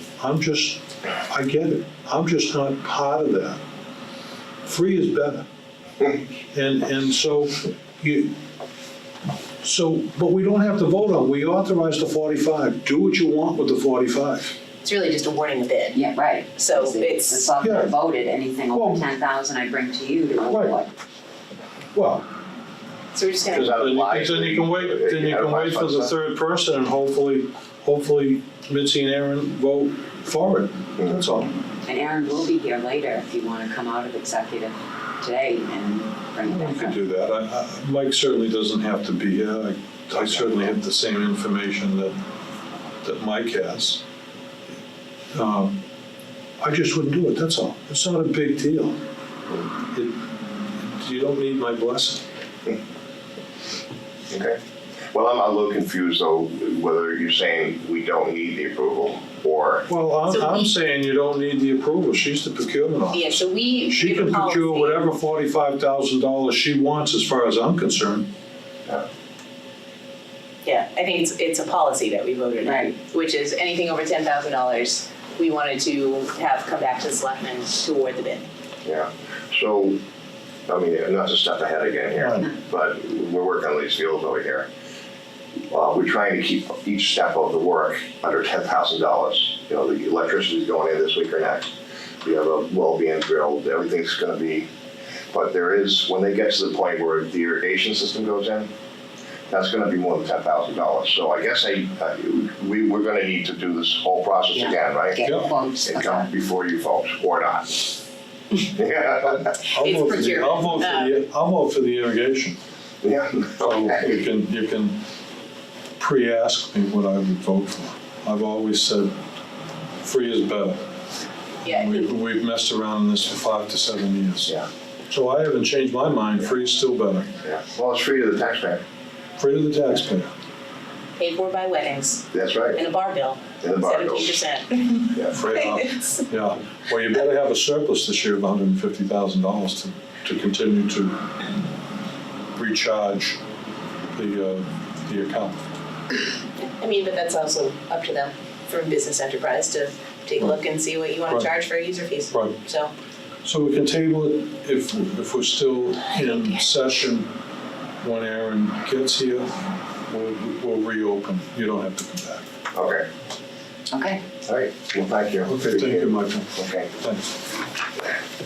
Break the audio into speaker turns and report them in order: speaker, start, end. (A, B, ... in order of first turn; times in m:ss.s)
0:00.2-0:03.6 A
0:04.6-0:05.5 A
0:06.5-0:08.4 A
0:09.6-0:14.6 A
0:14.8-0:16.0 B
0:15.9-0:20.9 C
0:16.6-0:17.4 B
0:17.6-0:17.9 A
0:18.7-0:19.1 A
0:20.5-0:20.8 A
0:21.9-0:22.2 A
0:23.1-0:23.7 B
0:23.5-0:26.1 D
0:23.5-0:31.5 A
0:31.8-0:37.0 C
0:36.5-0:42.2 A
0:40.2-0:40.7 D
0:43.0-0:44.0 A
0:45.3-0:45.8 A
0:46.6-0:49.0 A
0:50.8-0:52.2 A
0:54.3-0:54.6 D
0:55.1-0:59.9 D
0:59.9-1:08.3 A
1:00.3-1:00.7 B
1:03.1-1:05.0 B
1:10.6-1:18.5 B
1:12.6-1:12.9 C
1:18.8-1:20.0 D
1:20.7-1:24.7 D
1:22.2-1:22.5 A
1:25.7-1:31.7 D
1:32.2-1:34.7 D
1:35.3-1:38.7 D
1:39.5-1:45.2 D
1:44.5-1:46.3 C
1:45.2-1:45.5 A
1:45.8-1:47.9 D
1:48.6-1:49.6 D
1:49.7-1:52.6 A
1:49.7-1:51.2 B
1:53.0-1:54.2 D
1:53.6-1:55.0 A
1:56.0-1:59.2 A
2:00.0-2:00.8 A
2:01.6-2:02.0 B
2:01.7-2:07.3 A
2:07.4-2:08.8 D
2:09.4-2:10.3 A
2:11.2-2:16.2 B
2:12.3-2:12.8 D
2:13.6-2:14.4 D
2:15.3-2:21.2 A
2:22.6-2:23.4 A
2:24.2-2:25.6 A
2:26.6-2:32.9 B
2:32.3-2:32.6 A
2:33.4-2:37.3 A
2:36.2-2:36.6 B
2:38.0-2:39.5 A
2:40.1-2:42.4 A
2:42.7-2:43.1 D
2:43.9-2:44.2 C
2:44.5-2:46.9 D
2:45.4-2:47.4 A